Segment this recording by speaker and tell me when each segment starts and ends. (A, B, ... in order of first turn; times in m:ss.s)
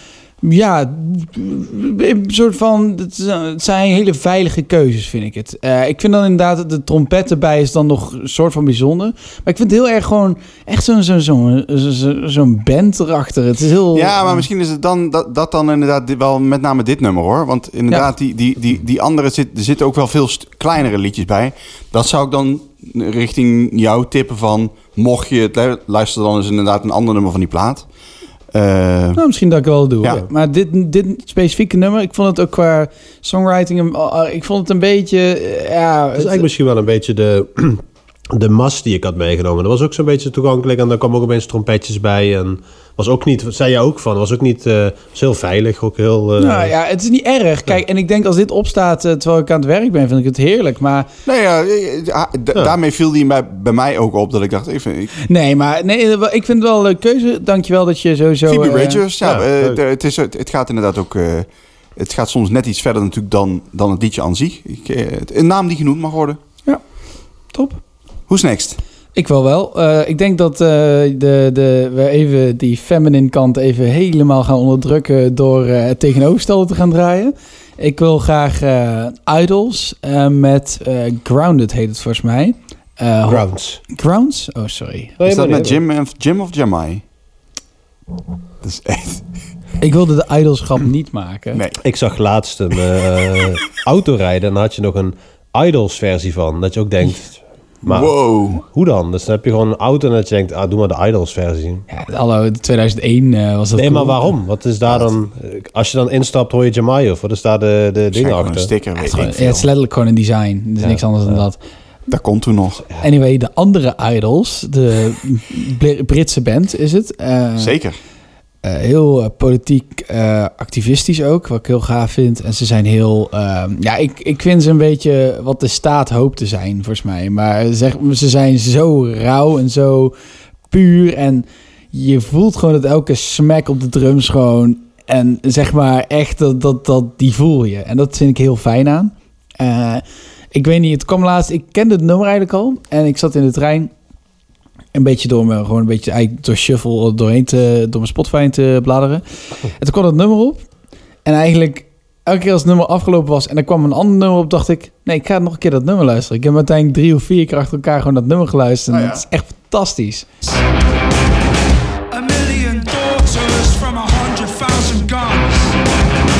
0:00.4-0:14.4 A
0:13.9-0:27.8 B
0:28.5-0:29.2 B
0:29.2-0:36.5 A
0:36.1-0:46.7 C
0:46.4-0:51.1 A
0:51.2-0:55.1 B
0:55.2-0:59.0 A
0:58.5-1:06.4 B
0:59.2-0:59.8 C
1:07.5-1:07.8 A
1:08.3-1:08.8 B
1:09.1-1:25.1 A
1:23.3-1:23.8 C
1:25.2-1:25.8 C
1:25.2-1:27.0 B
1:28.6-1:29.2 B
1:29.8-1:31.6 A
1:31.5-1:31.8 B
1:31.8-1:41.8 C
1:37.8-1:38.6 B
1:41.9-1:44.3 A
1:43.7-1:48.7 C
1:48.1-1:49.6 B
1:49.0-1:51.6 A
1:50.8-1:51.4 C
1:52.1-1:52.8 B
1:53.0-1:57.8 A
1:57.6-1:58.0 B
1:58.6-2:10.1 A
2:10.7-2:23.9 A
2:24.9-2:29.2 A
2:29.8-2:30.6 A
2:31.2-2:40.3 A
2:38.9-2:39.2 B
2:42.1-2:45.8 D